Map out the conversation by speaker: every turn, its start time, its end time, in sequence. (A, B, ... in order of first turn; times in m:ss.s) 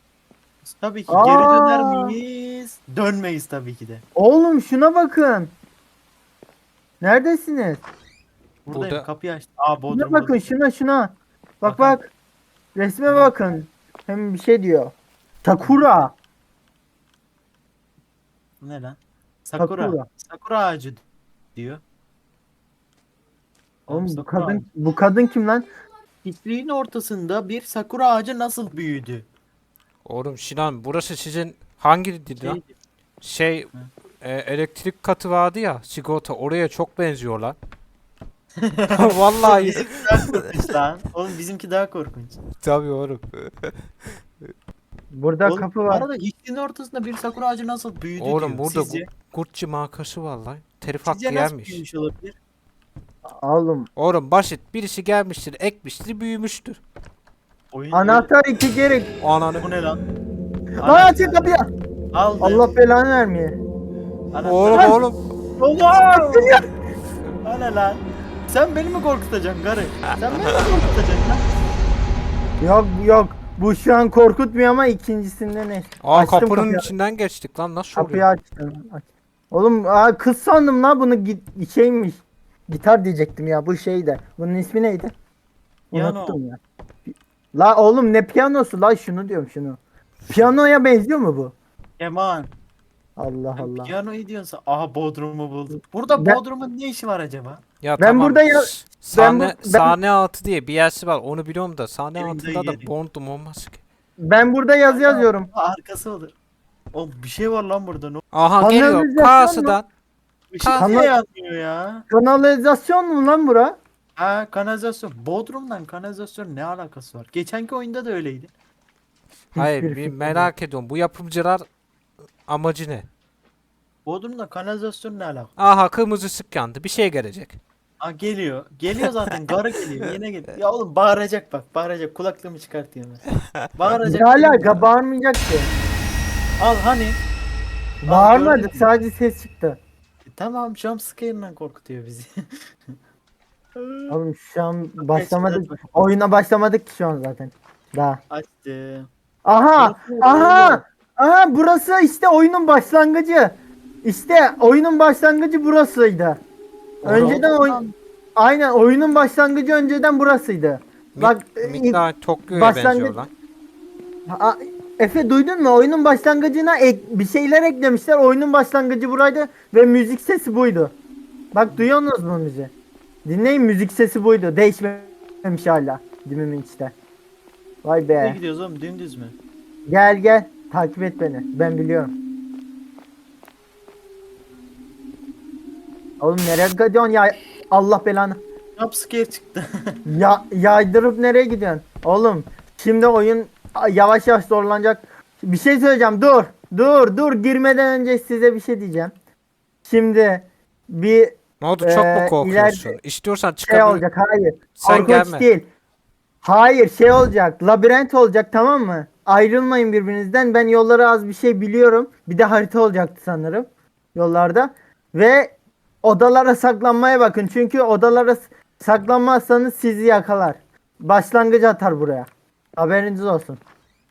0:00.6-0:04.0 A
0:01.1-0:02.2 B
0:04.2-0:05.5 B
0:07.0-0:07.8 B
0:08.6-0:10.5 A
0:08.7-0:09.0 C
0:09.9-0:12.1 B
0:11.6-0:12.0 A
0:12.8-0:16.1 B
0:13.1-0:13.3 A
0:15.6-0:16.0 A
0:18.6-0:21.0 A
0:19.6-0:20.1 B
0:21.5-0:21.8 A
0:23.9-0:24.7 A
0:23.9-0:25.7 B
0:26.2-0:29.2 A
0:30.0-0:32.6 C
0:32.4-0:32.7 A
0:33.2-0:33.7 C
0:34.2-0:37.6 C
0:38.6-0:42.4 A
0:38.9-0:40.6 C
0:42.6-0:44.1 C
0:45.1-0:46.0 B
0:45.4-0:49.1 A
0:48.2-0:51.8 C
0:51.0-0:52.4 A
0:53.3-0:53.9 B
0:54.0-0:56.8 C
0:57.7-0:58.3 A
0:57.9-0:59.1 B
0:59.2-0:59.7 C
0:59.6-1:00.0 A
1:00.8-1:01.5 A
1:00.8-1:01.7 B
1:02.1-1:02.7 A
1:02.4-1:03.6 B
1:04.3-1:05.0 A
1:04.4-1:05.2 C
1:04.7-1:05.0 B
1:05.6-1:06.6 A
1:06.0-1:06.7 B
1:07.4-1:11.4 A
1:12.6-1:16.9 B
1:16.0-1:18.3 C
1:17.9-1:25.1 B
1:25.9-1:26.6 B
1:25.9-1:26.4 A
1:27.1-1:29.8 B
1:30.3-1:31.5 B
1:32.0-1:32.5 A
1:33.2-1:33.9 B
1:33.6-1:37.6 A
1:36.1-1:36.4 B
1:37.8-1:43.8 C
1:38.0-1:39.9 B
1:42.1-1:42.9 A
1:44.2-1:45.5 B
1:44.9-1:46.3 A
1:46.9-1:48.2 A
1:48.3-1:49.8 C
1:48.6-1:49.8 B
1:50.5-1:52.0 A
1:50.6-1:50.9 C
1:50.8-1:51.1 B
1:52.1-1:53.8 B
1:54.2-1:58.5 A
1:59.5-2:00.5 B
1:59.6-2:01.6 C
2:02.5-2:03.1 C
2:04.0-2:05.5 A
2:05.6-2:07.6 C
2:08.0-2:14.8 A
2:14.1-2:15.7 B
2:16.6-2:17.2 A
2:18.0-2:18.9 A
2:18.0-2:19.8 B
2:20.2-2:22.9 A
2:23.8-2:24.1 A
2:24.1-2:28.2 B
2:25.0-2:25.9 A
2:28.3-2:29.1 A
2:29.4-2:36.4 B
2:29.8-2:30.8 A
2:37.0-2:37.8 B
2:37.0-2:37.9 A
2:38.4-2:43.2 B
2:41.1-2:43.3 C
2:44.3-2:50.9 B
2:51.5-2:52.7 B
2:53.2-2:56.9 B
2:57.8-2:58.4 B
2:58.1-2:59.3 A
2:59.9-3:02.1 B
3:06.2-3:08.4 B
3:08.8-3:10.0 A
3:10.0-3:19.1 B
3:19.8-3:23.0 B
3:21.6-3:24.0 C
3:23.6-3:25.6 B
3:24.8-3:25.4 C
3:26.4-3:43.6 B